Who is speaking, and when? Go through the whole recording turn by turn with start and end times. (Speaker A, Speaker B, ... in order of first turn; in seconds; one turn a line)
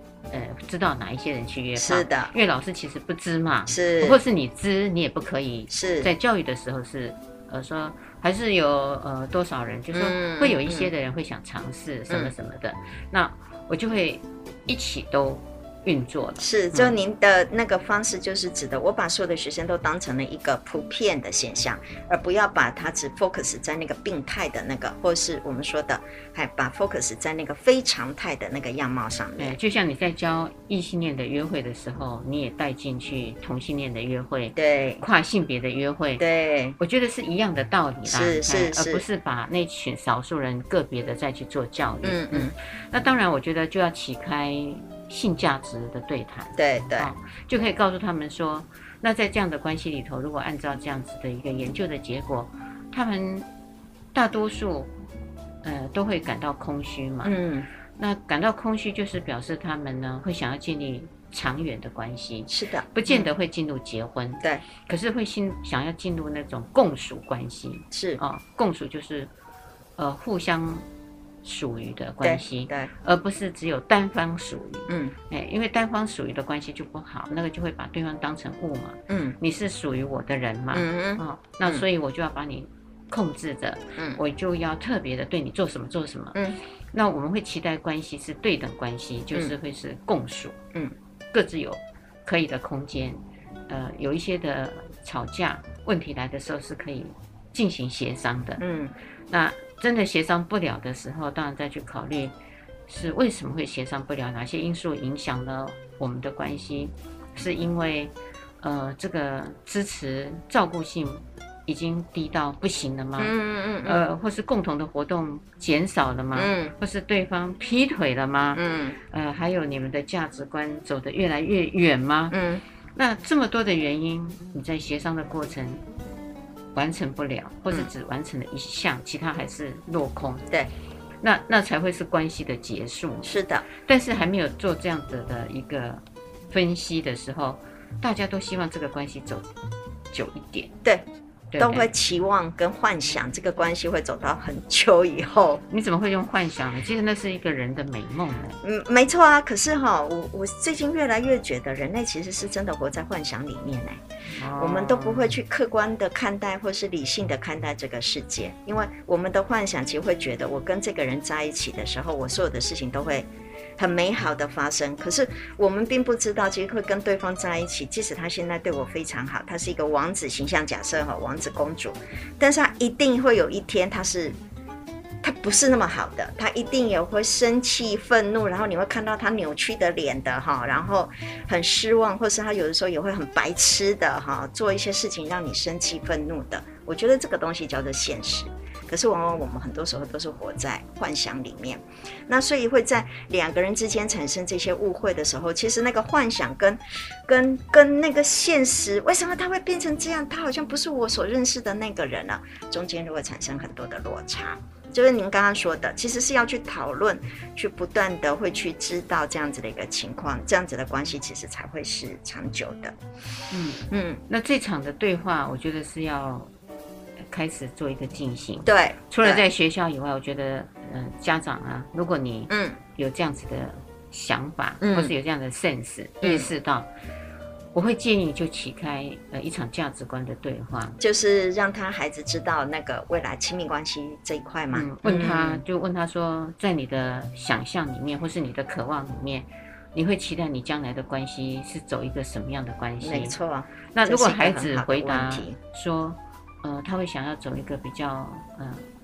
Speaker A: 0.3-16.9
Speaker B: 1.8-2.3
Speaker B: 3.7-4.2
Speaker B: 5.7-6.1
Speaker B: 9.9-10.9
Speaker B: 16.4-29.6
Speaker A: 29.4-36.2
Speaker B: 34.5-35.0
Speaker B: 36.2-36.8
Speaker A: 36.8-53.5
Speaker B: 38.0-39.0
Speaker B: 42.0-42.5
Speaker B: 46.6-47.1
Speaker A: 54.1-54.9
Speaker A: 55.6-57.3
Speaker B: 57.2-57.7
Speaker A: 58.0-69.3
Speaker B: 62.5-63.3
Speaker B: 67.9-68.2
Speaker A: 70.0-70.8
Speaker A: 71.4-86.4
Speaker B: 72.2-72.9
Speaker B: 74.9-75.1
Speaker B: 79.1-79.4
Speaker B: 80.7-81.8
Speaker A: 86.9-90.6
Speaker A: 91.3-98.6
Speaker B: 98.6-98.9
Speaker A: 99.3-102.3
Speaker A: 102.9-122.4
Speaker B: 113.2-114.0
Speaker B: 116.3-116.7
Speaker B: 118.5-119.0
Speaker B: 122.3-122.6
Speaker A: 122.9-125.8
Speaker A: 126.7-130.5
Speaker A: 131.2-139.5
Speaker B: 133.2-133.6
Speaker A: 140.1-140.7
Speaker A: 141.5-141.9
Speaker B: 141.6-145.6
Speaker A: 145.7-148.6
Speaker B: 148.6-154.0
Speaker A: 154.3-155.3
Speaker B: 154.5-174.4
Speaker B: 175.2-212.9
Speaker A: 213.5-216.5
Speaker B: 213.9-214.2
Speaker A: 217.3-226.9
Speaker B: 218.7-219.4
Speaker B: 222.5-222.8
Speaker B: 224.8-225.1
Speaker B: 226.2-226.5
Speaker A: 227.7-231.0
Speaker B: 231.0-235.6
Speaker A: 234.7-243.3
Speaker B: 243.0-245.6
Speaker A: 243.9-248.8